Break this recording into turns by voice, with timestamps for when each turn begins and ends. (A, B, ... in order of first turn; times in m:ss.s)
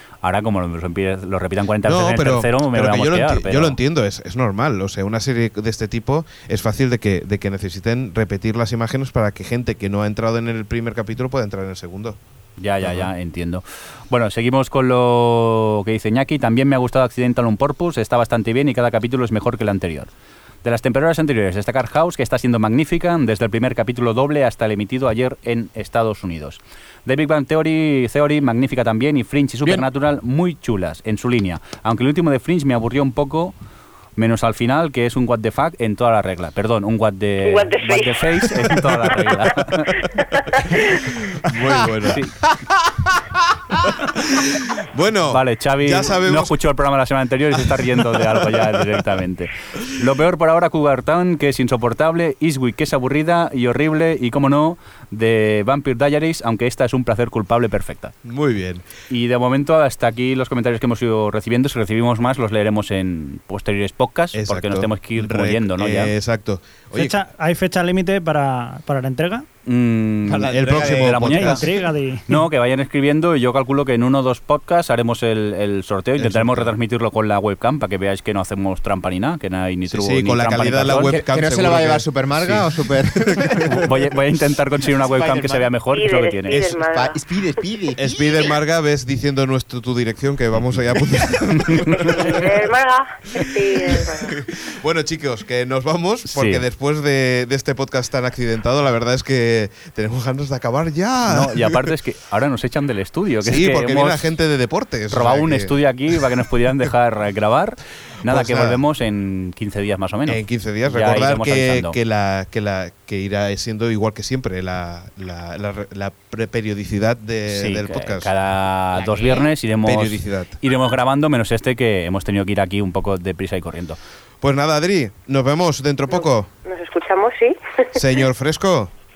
0:00.2-0:03.8 A
0:01.8-0:12.2 B
0:12.6-0:20.1 A
0:12.8-0:13.1 B
0:20.6-0:33.5 A
0:34.2-0:40.0 A
0:37.4-0:39.5 C
0:40.2-0:41.1 C
0:41.2-0:42.2 B
0:42.0-0:42.3 A
0:42.8-0:46.6 B
0:45.3-0:58.1 A
0:48.1-0:48.8 B
0:58.2-0:58.8 B
0:59.1-1:06.2 A
1:04.3-1:07.2 B
1:06.9-1:09.5 D
1:09.7-1:11.7 A
1:10.3-1:11.6 E
1:10.5-1:11.7 B
1:11.3-1:12.4 D
1:12.3-1:21.1 A
1:16.2-1:16.7 B
1:19.9-1:22.6 B
1:21.0-1:23.9 E
1:23.3-1:23.8 B
1:23.6-1:26.6 A
1:25.1-1:25.7 E
1:25.9-1:27.2 C
1:26.5-1:28.0 E
1:28.0-1:32.7 B
1:28.1-1:28.6 C
1:31.6-1:32.2 A
1:32.1-1:34.4 C
1:33.3-1:41.9 B
1:36.3-1:36.6 A
1:41.3-1:44.2 A
1:43.4-1:45.8 B
1:45.1-1:52.0 A
1:48.2-1:48.8 B
1:50.3-1:58.3 B
1:57.5-2:04.0 A
1:59.8-2:00.6 B
2:04.4-2:06.5 B
2:06.1-2:08.2 C
2:07.9-2:08.9 B